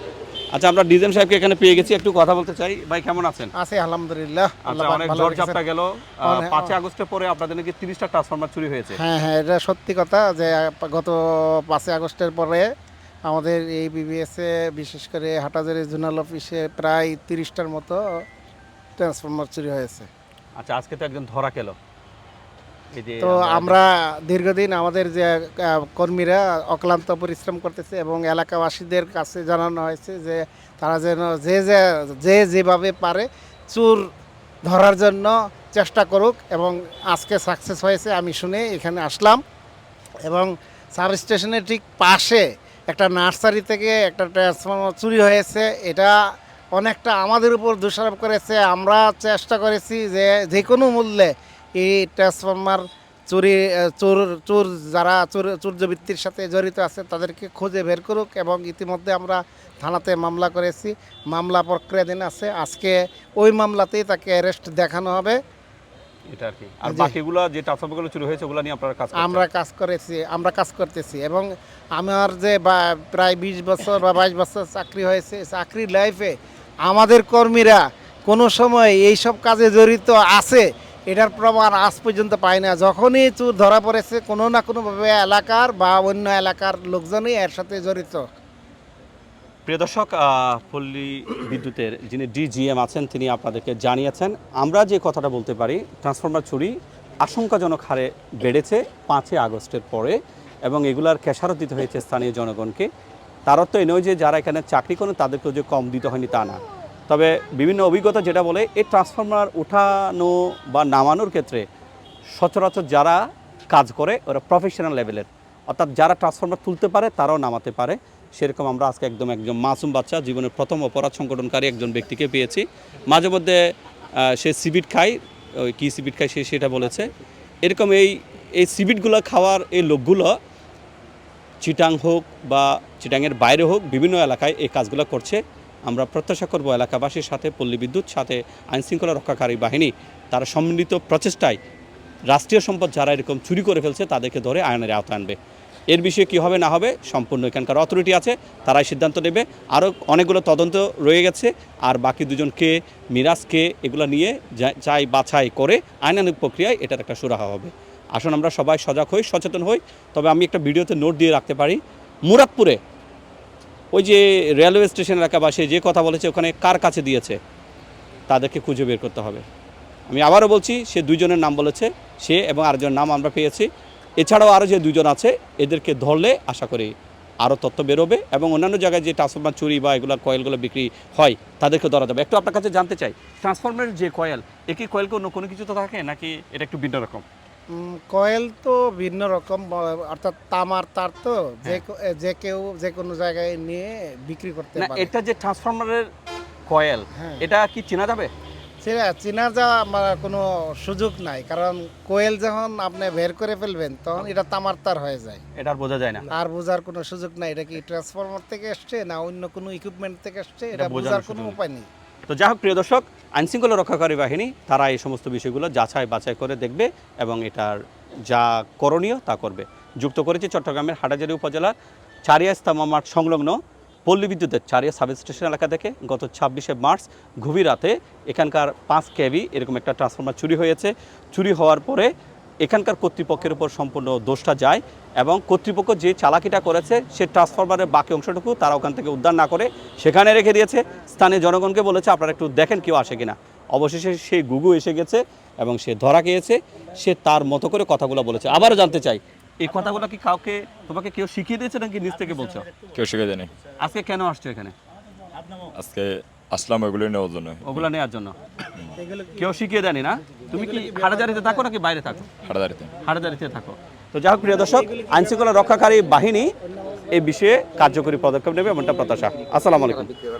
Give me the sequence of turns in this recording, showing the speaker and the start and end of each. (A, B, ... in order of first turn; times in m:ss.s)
0:00.5-0:03.5 A
0:03.6-0:05.6 B
0:04.6-0:09.0 A
0:06.2-0:06.8 B
0:08.9-0:12.7 B
0:13.3-0:18.2 B
0:19.0-0:20.1 B
0:20.6-0:21.8 A
0:22.9-0:23.8 A
0:23.2-0:34.1 B
0:34.7-0:39.4 B
0:40.3-0:46.1 B
0:46.7-1:05.4 B
1:06.3-1:09.4 A
1:06.8-1:07.2 B
1:09.2-1:28.2 B
1:29.7-1:42.9 A
1:43.5-1:51.7 A
1:52.4-2:07.1 A
2:07.6-2:10.4 A
2:11.6-2:21.6 A
2:22.3-2:25.4 A
2:25.9-2:42.8 A
2:43.9-2:47.4 A
2:48.3-2:49.4 A
2:50.1-3:07.2 A
3:07.7-3:15.1 B
3:14.8-3:16.1 A
3:16.7-3:18.3 A
3:17.2-3:17.5 B
3:18.8-3:25.4 B
3:25.6-3:26.3 A
3:26.3-3:31.9 B
3:30.7-3:31.6 A
3:32.3-3:41.7 A
3:42.3-3:52.1 A
3:52.6-4:12.7 A
4:12.9-4:13.5 C
4:13.8-4:14.8 A
4:15.8-4:17.9 C
4:17.6-4:18.4 A
4:19.0-4:19.4 B
4:19.4-4:22.3 A
4:20.5-4:21.5 B
4:22.4-4:22.9 C
4:23.0-4:26.5 A
4:27.1-4:30.1 A